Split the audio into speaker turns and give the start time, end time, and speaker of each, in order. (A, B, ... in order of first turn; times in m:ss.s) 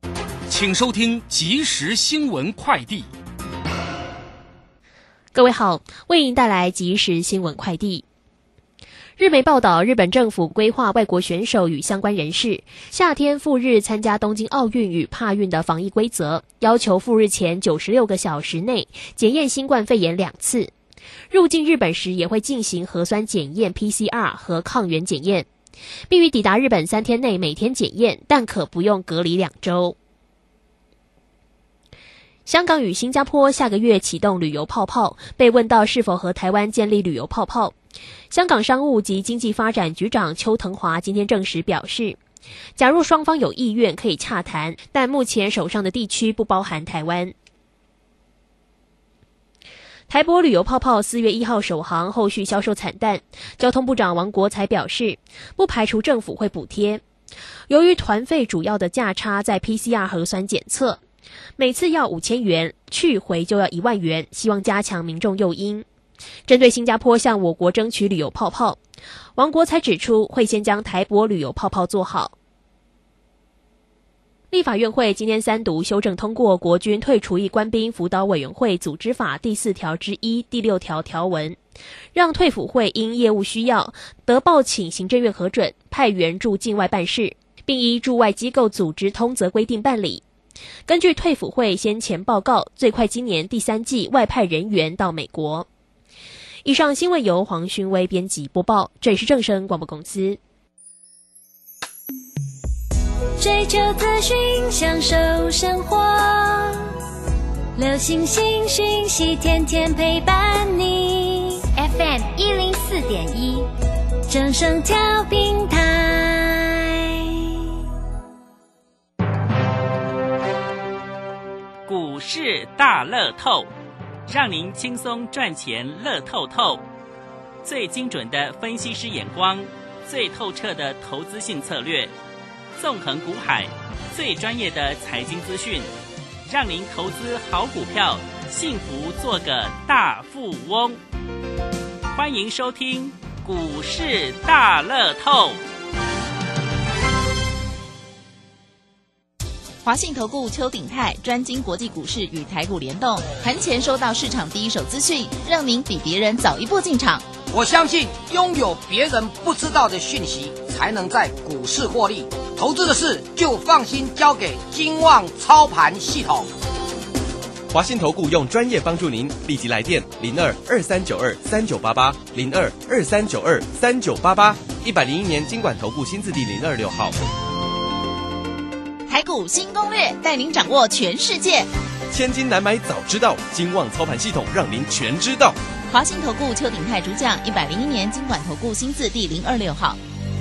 0:00.5-0:03.1 A
0:05.3-0:08.0 B
0:09.2-0:20.7 B
0:21.3-0:25.5 B
0:26.1-0:30.0 B
0:32.4-0:37.7 B
0:38.3-0:42.2 B
0:42.8-0:47.3 B
0:50.1-0:57.0 B
0:57.7-1:01.0 B
1:01.6-1:05.8 B
1:06.5-1:08.8 B
1:09.4-1:12.3 B
1:14.5-1:21.6 B
1:22.1-1:30.2 B
1:30.8-1:35.6 B
1:36.6-1:40.4 B
1:43.4-1:46.9 C
1:47.8-1:53.7 C
1:54.3-1:57.6 C
2:01.8-2:03.7 D
2:04.3-2:06.8 D
2:07.6-2:12.1 D
2:12.8-2:15.9 D
2:16.5-2:21.0 D
2:22.1-2:25.6 D
2:29.8-2:37.3 E
2:37.5-2:46.5 F
2:47.7-2:57.1 G
2:59.1-3:01.7 E
3:02.1-3:05.6 G
3:05.9-3:10.0 E